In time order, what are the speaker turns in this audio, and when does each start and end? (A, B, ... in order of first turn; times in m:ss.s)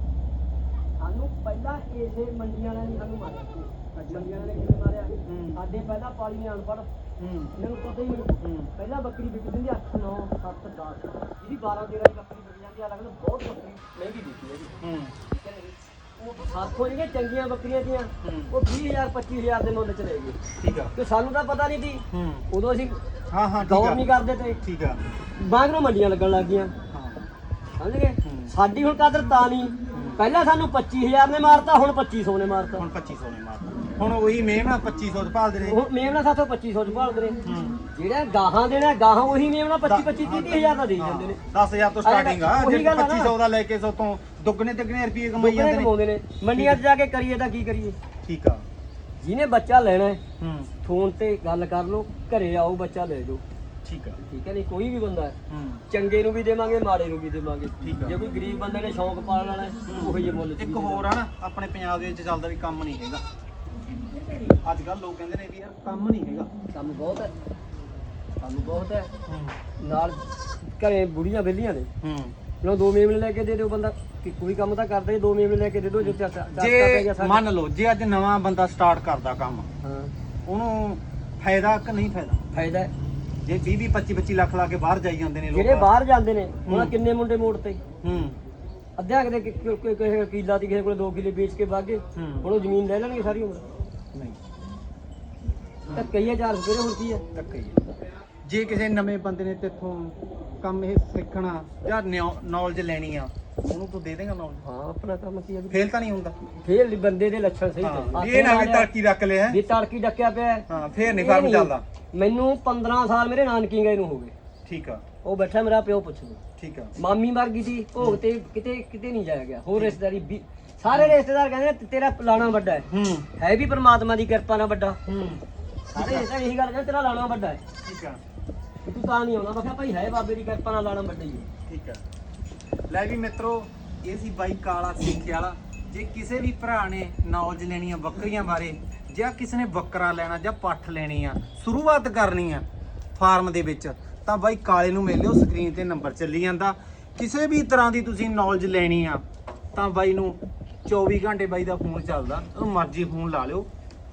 0:01.0-0:06.9 A
0:03.9-0:04.3 B
0:05.2-0:05.6 B
0:07.2-0:07.5 B
0:07.6-0:14.8 A
0:08.4-0:08.7 B
0:14.8-0:15.1 B
0:15.3-0:20.4 A
0:18.2-0:18.5 B
0:20.6-0:20.9 B
0:20.9-0:23.0 A
0:22.1-0:22.4 B
0:23.3-0:24.0 B
0:23.6-0:24.6 A
0:24.6-0:25.0 B
0:25.4-0:26.7 A
0:26.9-0:27.3 B
0:27.8-0:32.8 A
0:28.2-0:28.5 B
0:29.9-0:30.2 B
0:32.8-0:35.8 B
0:35.6-0:41.4 A
0:37.4-0:37.8 B
0:39.8-0:45.9 B
0:42.0-0:43.3 A
0:45.4-0:48.0 A
0:46.5-0:46.8 B
0:48.2-0:48.6 B
0:49.2-0:50.2 A
0:50.4-0:50.7 B
0:50.8-0:53.4 A
0:53.8-0:54.2 B
0:54.2-0:55.4 A
0:55.5-0:55.8 B
0:55.9-1:01.1 A
0:57.8-0:58.2 B
0:59.8-1:03.2 B
1:04.4-1:06.5 B
1:06.7-1:07.3 A
1:08.4-1:09.1 A
1:09.3-1:09.6 B
1:09.8-1:11.9 A
1:12.0-1:12.3 B
1:12.6-1:17.4 A
1:16.0-1:19.7 B
1:19.8-1:20.1 A
1:20.4-1:22.4 B
1:22.5-1:22.9 A
1:23.4-1:25.9 B
1:25.5-1:27.8 A
1:26.6-1:26.9 B
1:28.0-1:28.4 B
1:29.0-1:33.6 A
1:32.1-1:32.5 B
1:35.8-1:36.1 B
1:35.9-1:37.2 A
1:37.3-1:37.8 B
1:38.4-1:44.6 B
1:44.6-1:45.8 A
1:45.7-1:46.4 B
1:46.6-1:48.9 A
1:47.8-1:49.6 B
1:49.5-1:54.3 A
1:50.7-1:51.8 B
1:54.6-1:55.0 B
1:55.2-1:56.4 A
1:56.6-1:56.9 B
1:57.0-2:05.0 A
2:02.9-2:03.3 B
2:05.0-2:06.3 B
2:05.9-2:07.6 A
2:07.8-2:08.2 B
2:08.8-2:11.5 A
2:11.7-2:12.0 B
2:12.9-2:22.6 B
2:23.2-2:33.7 B